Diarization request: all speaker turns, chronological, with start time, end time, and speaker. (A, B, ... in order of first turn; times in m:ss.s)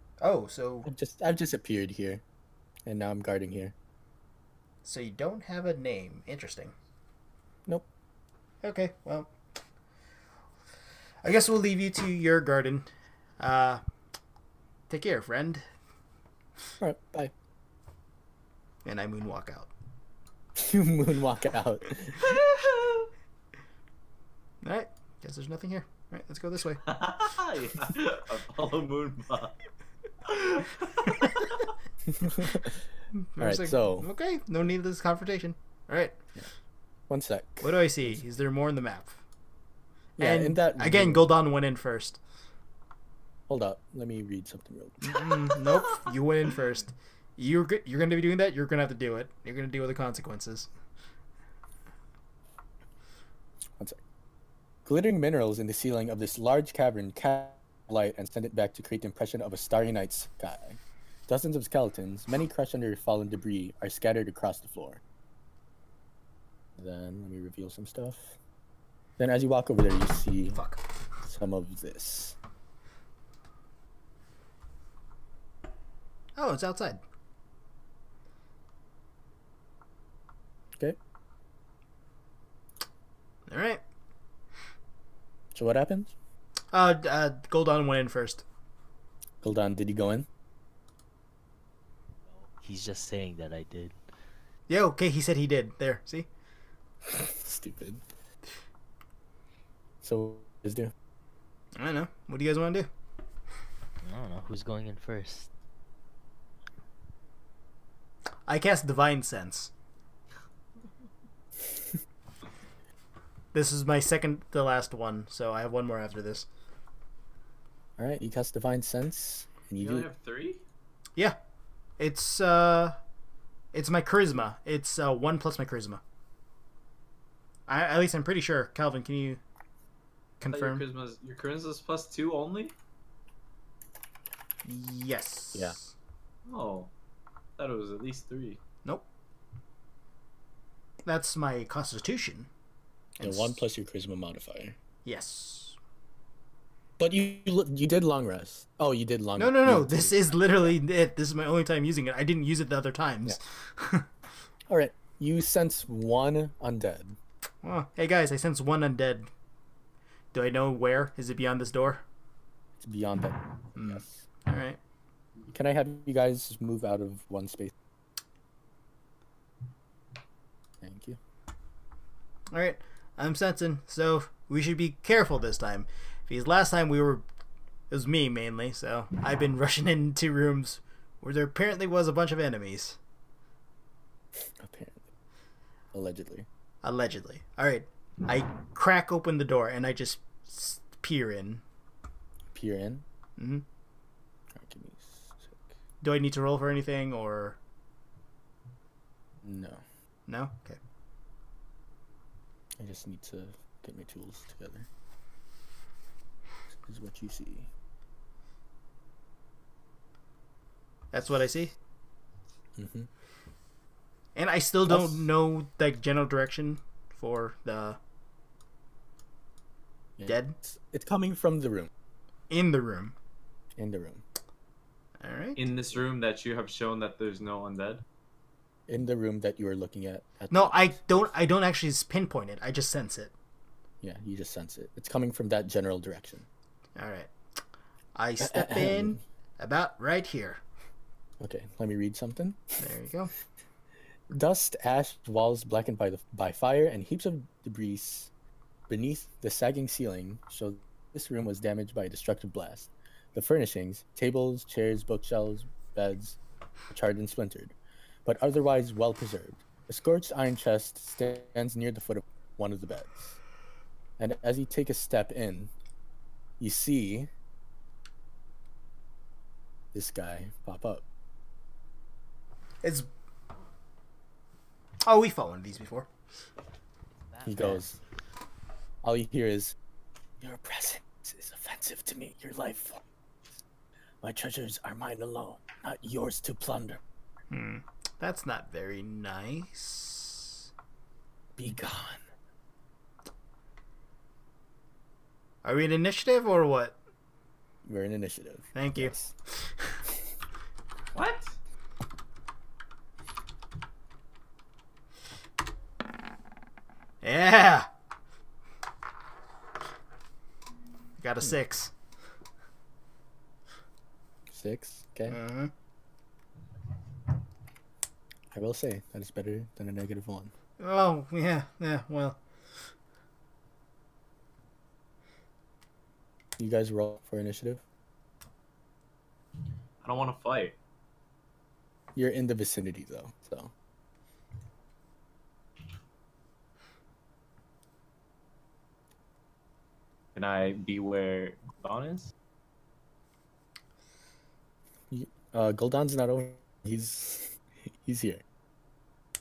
0:00.2-0:00.9 A
0:00.8-0:02.2 B
0:02.9-0:03.7 B
0:04.8-0:06.7 A
0:08.6-0:09.3 A
0:11.2-0:13.8 A
0:14.9-0:15.6 A
0:16.8-0:17.3 B
0:18.8-0:19.7 A
0:20.6-0:22.4 B
0:22.3-0:22.9 C
0:24.6-0:26.8 A
0:26.8-0:29.6 C
0:30.2-0:31.6 C
0:32.1-0:32.8 B
0:33.2-0:36.2 A
0:33.4-0:34.1 B
0:37.1-0:38.2 B
0:37.6-0:39.2 A
0:40.2-0:41.3 B
0:40.2-0:42.2 A
0:43.5-0:45.3 B
0:45.0-0:50.7 A
0:54.8-1:05.0 B
1:06.8-1:08.4 B
1:09.2-1:10.6 B
1:10.5-1:10.8 A
1:11.2-1:12.4 B
1:16.4-1:17.0 A
1:23.5-1:23.8 A
1:25.5-1:26.1 B
1:26.7-1:28.4 A
1:29.4-1:30.3 B
1:32.4-1:34.0 D
1:34.7-1:36.3 A
1:37.1-1:38.0 B
1:40.0-1:40.9 B
1:41.8-1:42.9 A
1:44.0-1:45.5 D
1:48.5-1:49.7 A
1:53.5-1:56.5 A
1:58.0-2:00.1 B
1:59.8-2:00.6 C
2:02.0-2:03.0 A
2:03.7-2:06.0 A
2:07.7-2:09.4 A
2:10.4-2:10.8 A
2:10.5-2:12.7 C
2:14.6-2:15.9 A
2:16.5-2:16.9 C
2:17.6-2:18.6 C
2:21.0-2:22.5 A
2:23.2-2:23.6 A
2:23.2-2:24.8 B
2:25.0-2:25.8 A
2:27.0-2:30.8 B
2:29.4-2:34.1 A
2:34.7-2:37.2 B
2:37.6-2:39.3 A
2:40.3-2:42.0 A
2:42.8-2:44.2 B
2:43.8-2:44.8 A
2:45.5-2:47.7 B
2:50.8-2:51.2 B
2:52.5-2:57.2 A
2:57.9-3:03.0 A
3:04.6-3:05.0 B
3:05.9-3:06.5 B
3:06.8-3:11.6 A
3:12.5-3:13.0 B
3:13.4-3:13.6 A
3:14.5-3:15.6 B
3:16.0-3:17.6 A
3:19.4-3:19.8 B
3:20.3-3:20.8 A
3:22.8-3:24.9 B
3:26.7-3:27.7 B
3:31.1-3:31.8 A
3:32.8-3:33.1 B
3:34.4-3:38.0 A
3:34.9-3:35.3 B
3:40.2-3:41.9 B
3:40.3-3:40.6 A
3:42.5-3:43.2 A
3:43.8-3:44.2 B
3:45.2-3:45.6 A
3:45.6-3:48.0 C
3:48.9-3:51.3 B
3:50.5-3:53.3 A
3:54.0-3:56.5 B
3:57.0-3:57.3 A
3:58.2-4:00.6 A
3:58.4-3:59.2 B
4:01.4-4:02.8 B
4:02.8-4:03.3 A
4:04.3-4:08.3 B
4:08.9-4:16.4 B
4:16.9-4:23.4 B
4:24.2-4:25.7 B
4:26.6-4:27.3 B
4:29.9-4:31.0 B
4:32.8-4:33.1 A
4:35.0-4:36.1 A
4:37.3-4:37.8 D
4:37.4-4:38.0 B
4:39.0-4:39.8 B
4:40.4-4:43.0 B
4:44.2-4:47.0 B
4:47.5-4:50.7 A
4:51.6-4:52.2 B
4:55.6-4:57.0 A
4:57.8-4:59.3 B
4:58.8-5:00.0 A
5:01.1-5:01.6 C
5:07.2-5:07.9 A
5:11.2-5:11.9 A
5:14.5-5:15.4 B
5:15.3-5:15.7 A
5:18.5-5:20.5 B
5:20.8-5:22.4 A
5:26.6-5:27.8 B
5:30.0-5:30.8 C
5:32.2-5:33.7 B
5:40.4-5:42.3 C
5:45.1-5:48.4 B